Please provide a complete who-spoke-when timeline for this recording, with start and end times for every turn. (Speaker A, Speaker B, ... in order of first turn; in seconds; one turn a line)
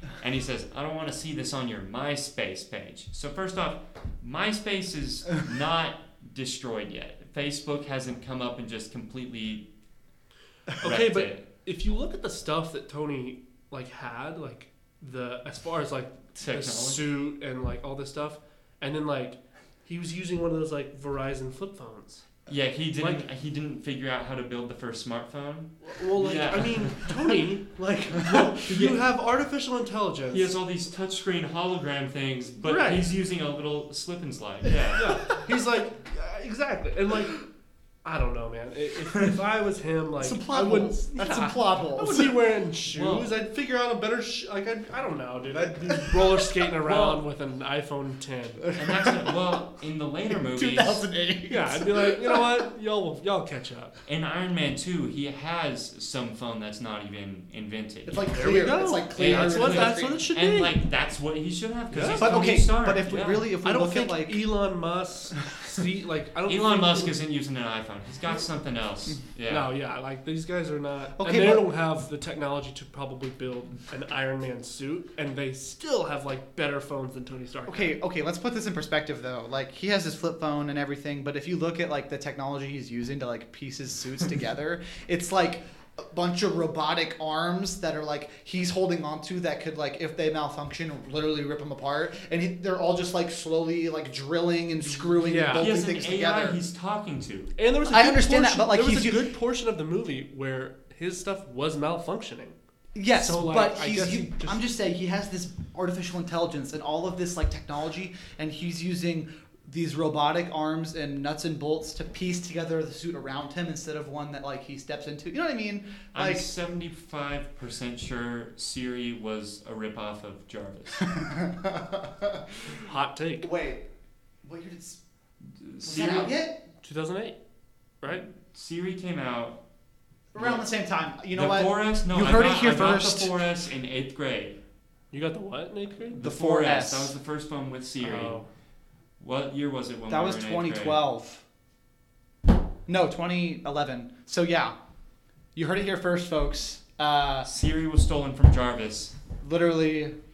Speaker A: 0.2-9.7
Speaker B: 10.8-22.3
Speaker A: 10.8-11.4
Speaker A: 16.3-17.0
Speaker A: 22.5-27.3
Speaker B: 23.0-23.2
Speaker B: 25.8-30.5
Speaker A: 28.6-29.0
Speaker A: 30.3-35.4
Speaker B: 32.6-33.1
Speaker B: 34.9-37.5
Speaker B: 38.0-48.7
Speaker C: 40.2-42.4
Speaker A: 42.9-43.3
Speaker C: 46.0-46.4
Speaker A: 46.8-47.2
Speaker A: 48.7-51.0
Speaker C: 48.8-49.3
Speaker C: 50.3-52.6
Speaker B: 51.5-54.0
Speaker A: 54.0-58.2
Speaker C: 58.0-60.3
Speaker B: 58.3-60.8
Speaker A: 59.1-63.5
Speaker B: 61.9-62.4
Speaker C: 62.2-64.4
Speaker B: 63.6-67.1
Speaker A: 66.5-69.7
Speaker B: 69.5-78.0
Speaker C: 71.2-71.7
Speaker C: 77.7-96.6
Speaker B: 95.0-95.7
Speaker A: 95.6-97.5
Speaker B: 97.5-102.5
Speaker C: 97.8-99.2
Speaker C: 102.9-116.5
Speaker B: 103.1-104.6
Speaker A: 116.1-121.1
Speaker C: 121.1-122.8
Speaker B: 122.8-123.5
Speaker C: 123.4-123.9
Speaker C: 124.4-125.0
Speaker A: 125.6-126.3
Speaker C: 125.8-126.6
Speaker B: 126.8-127.4
Speaker A: 128.1-129.6
Speaker C: 130.3-133.3
Speaker A: 130.3-130.7
Speaker A: 131.3-134.6
Speaker B: 135.1-136.2
Speaker A: 136.1-138.4
Speaker C: 136.2-137.1
Speaker B: 138.0-138.5
Speaker A: 139.2-141.0
Speaker C: 140.1-141.4
Speaker C: 142.9-144.7
Speaker C: 145.5-147.5
Speaker A: 147.4-149.2
Speaker C: 149.4-150.1